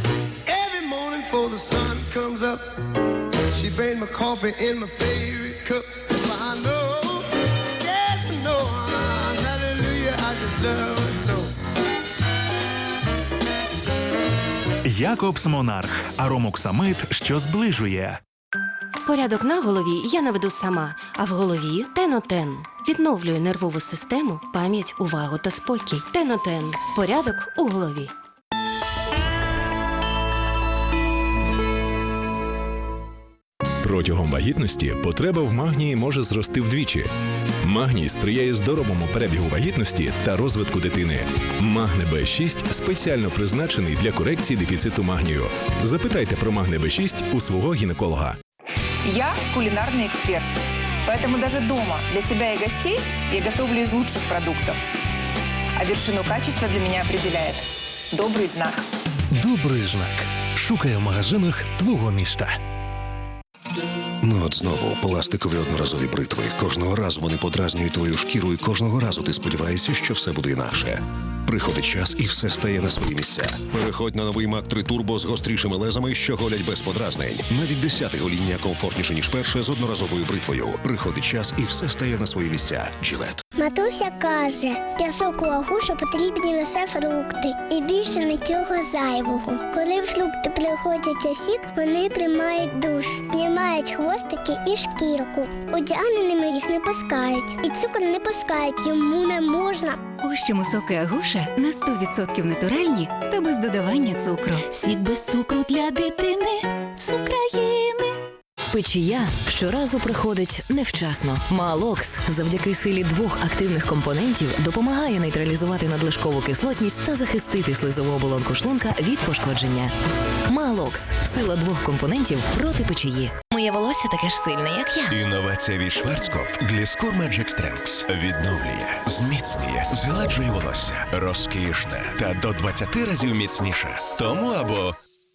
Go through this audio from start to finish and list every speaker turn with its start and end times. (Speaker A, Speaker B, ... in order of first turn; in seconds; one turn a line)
Speaker A: 0.5-2.6
Speaker A: 3.5-7.3
Speaker A: 7.8-11.5
Speaker B: 14.9-18.2
Speaker C: 19.1-28.1
Speaker D: 33.8-37.1
Speaker D: 37.6-48.3
Speaker E: 49.0-50.5
Speaker E: 51.0-54.8
Speaker E: 55.8-58.8
Speaker F: 59.3-62.6
Speaker G: 64.2-83.4
Speaker H: 83.6-100.0
Speaker I: 100.2-104.6
Speaker J: 108.7-119.9
Speaker J: 120.5-125.2
Speaker K: 125.1-134.9